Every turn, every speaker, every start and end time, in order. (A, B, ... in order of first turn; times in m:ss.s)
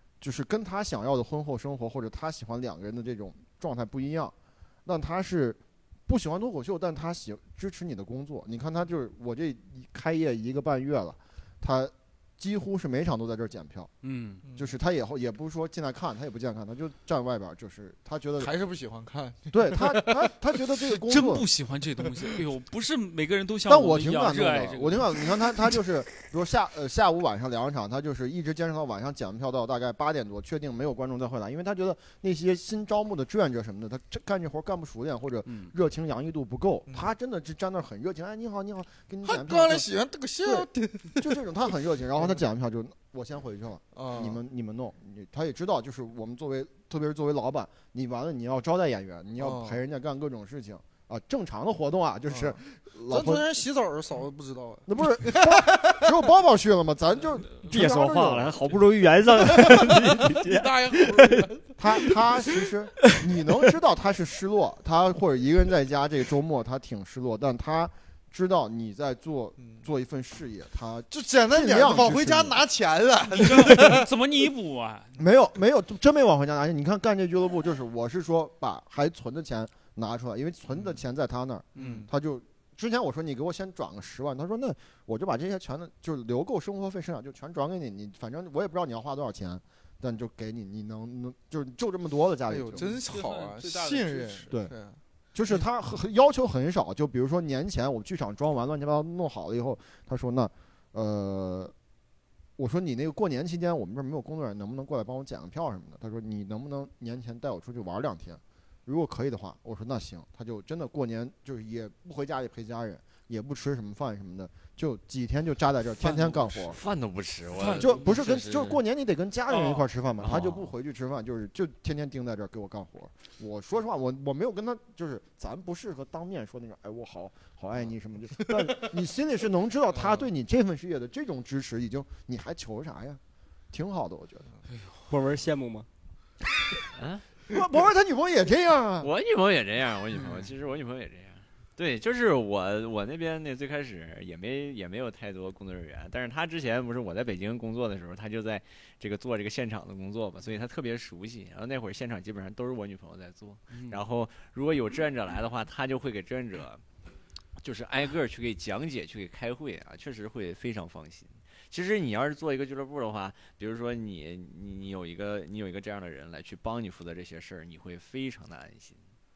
0:00.2-0:04.3 A
0:04.8-0:13.9 A
0:14.0-0:14.4 B
0:14.4-0:14.7 C
0:14.5-0:18.5 A
0:18.4-0:20.2 C
0:19.5-0:21.4 A
0:21.0-0:25.3 B
0:23.6-0:39.9 A
0:35.4-0:35.7 B
0:39.2-0:41.4 C
0:40.4-0:53.4 A
0:43.9-0:44.4 C
0:49.4-0:49.8 C
0:52.3-0:56.1 C
0:54.9-0:58.5 A
0:57.6-1:03.2 D
0:59.3-1:01.8 C
1:01.8-1:12.6 A
1:09.6-1:09.8 C
1:11.1-1:14.1 C
1:13.3-1:15.1 B
1:15.2-1:32.9 A
1:21.8-1:22.0 B
1:21.8-1:22.1 C
1:32.5-1:35.0 C
1:32.8-1:34.5 B
1:35.3-1:41.7 A
1:42.6-1:56.8 A
1:56.0-1:58.8 E
1:57.5-1:58.2 B
1:57.8-2:13.2 A
1:59.5-1:59.8 B
2:00.2-2:00.7 E
2:13.7-2:14.5 A
2:15.1-2:15.9 D
2:17.0-2:17.2 E
2:17.5-2:19.1 A
2:19.0-2:36.8 E
2:33.7-2:34.0 B
2:37.6-2:49.0 E